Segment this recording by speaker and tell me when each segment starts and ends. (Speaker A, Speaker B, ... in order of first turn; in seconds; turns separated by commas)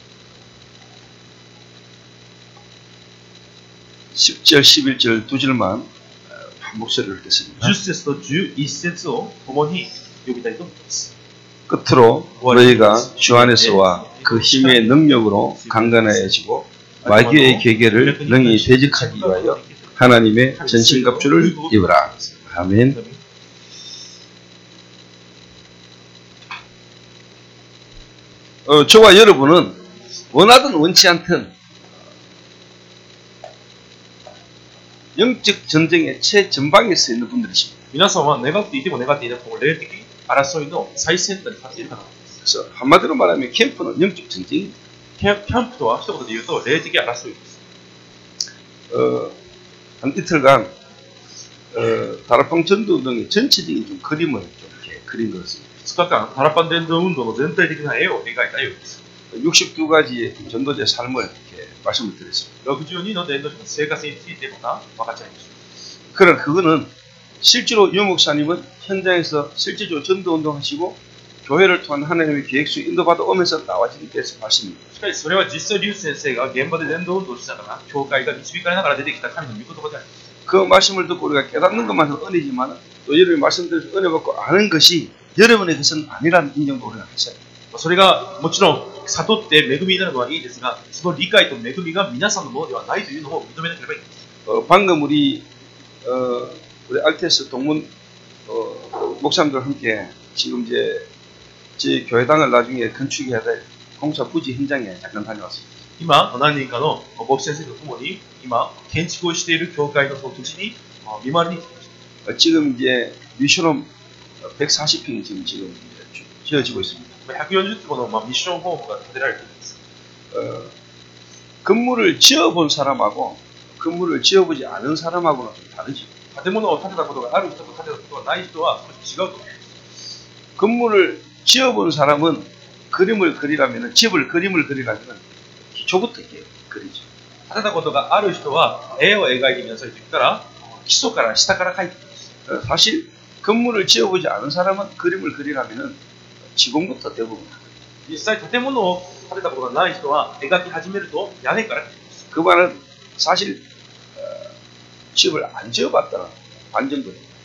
Speaker A: 4.2-5.9, Speaker A: 6.6-7.8, Speaker B: 7.6-11.1, Speaker A: 11.7-23.0, Speaker B: 12.4-16.3, Speaker B: 17.0-23.2, Speaker A: 28.7-29.8, Speaker A: 30.3-31.5, Speaker A: 35.1-37.7, Speaker B: 37.9-42.3, Speaker A: 42.4-44.8, Speaker B: 45.2-47.6, Speaker A: 48.9-49.4, Speaker A: 50.0-50.7, Speaker A: 51.7-55.6, Speaker B: 55.8-59.0, Speaker A: 59.3-62.5, Speaker B: 62.6-65.5, Speaker A: 66.1-66.9, Speaker A: 67.4-74.8, Speaker B: 75.0-80.1, Speaker A: 80.5-87.4, Speaker B: 87.7-94.2, Speaker A: 94.5-95.5, Speaker A: 96.0-97.9, Speaker A: 98.5-101.1, Speaker A: 101.8-105.7, Speaker B: 106.0-111.9, Speaker A: 112.3-113.9, Speaker A: 114.5-117.1, Speaker B: 117.3-119.8, Speaker A: 120.3-120.7, Speaker A: 121.6-126.1, Speaker B: 126.3-129.6, Speaker A: 130.6-135.2, Speaker A: 135.7-137.1, Speaker B: 137.5-142.2, Speaker A: 142.5-146.0, Speaker A: 146.6-147.6, Speaker B: 148.1-152.2, Speaker A: 152.3-153.6, Speaker A: 154.2-154.4, Speaker A: 155.2-157.2